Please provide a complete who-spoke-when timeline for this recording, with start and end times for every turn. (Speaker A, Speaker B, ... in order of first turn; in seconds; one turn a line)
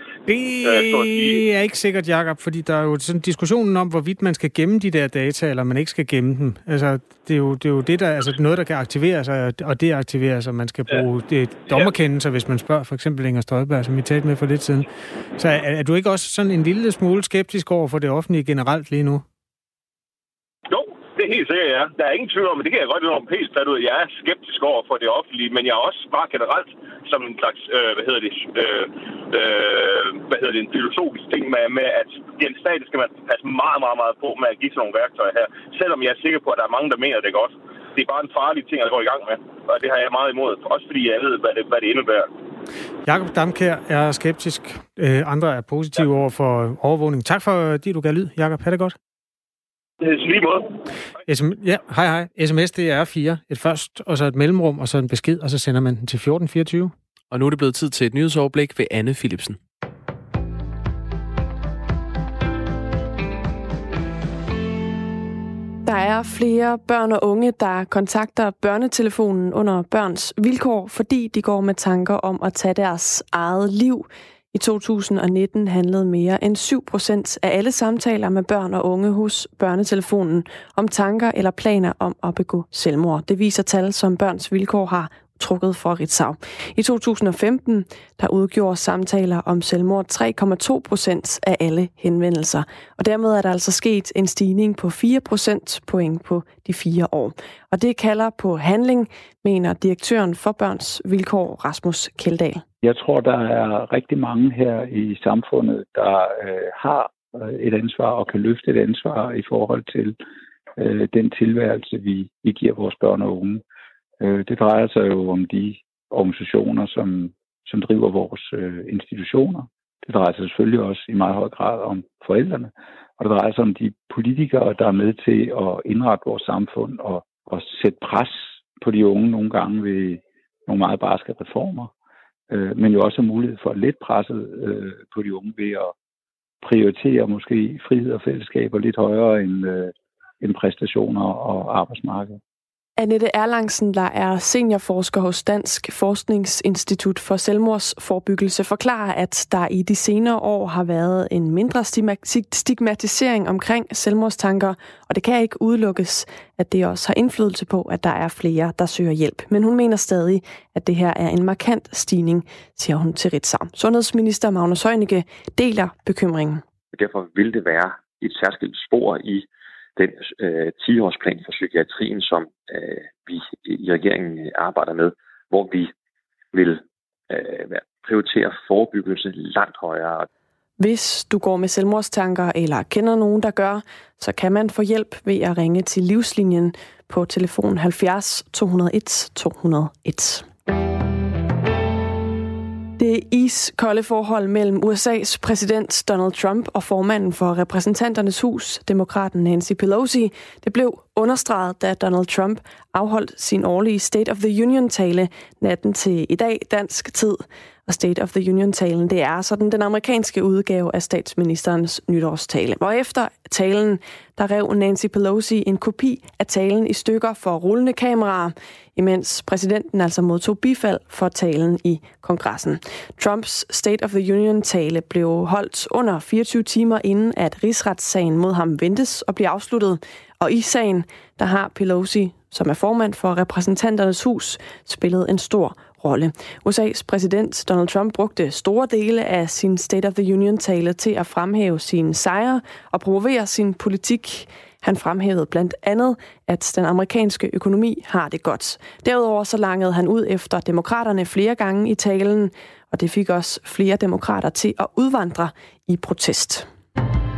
Speaker A: 0.3-19.2
Speaker B: 0.6-1.4
Speaker B: 20.7-42.3
Speaker A: 43.1-49.0
Speaker B: 50.0-50.8
Speaker A: 51.3-56.9
Speaker C: 57.3-59.6
Speaker D: 65.8-102.6
Speaker E: 102.8-110.2
Speaker E: 110.8-113.6
Speaker E: 114.2-131.9
Speaker E: 132.5-135.9
Speaker E: 136.6-142.4
Speaker D: 143.0-166.6
Speaker F: 166.9-175.9
Speaker F: 176.5-180.3
Speaker D: 180.8-190.5
Speaker D: 193.0-256.7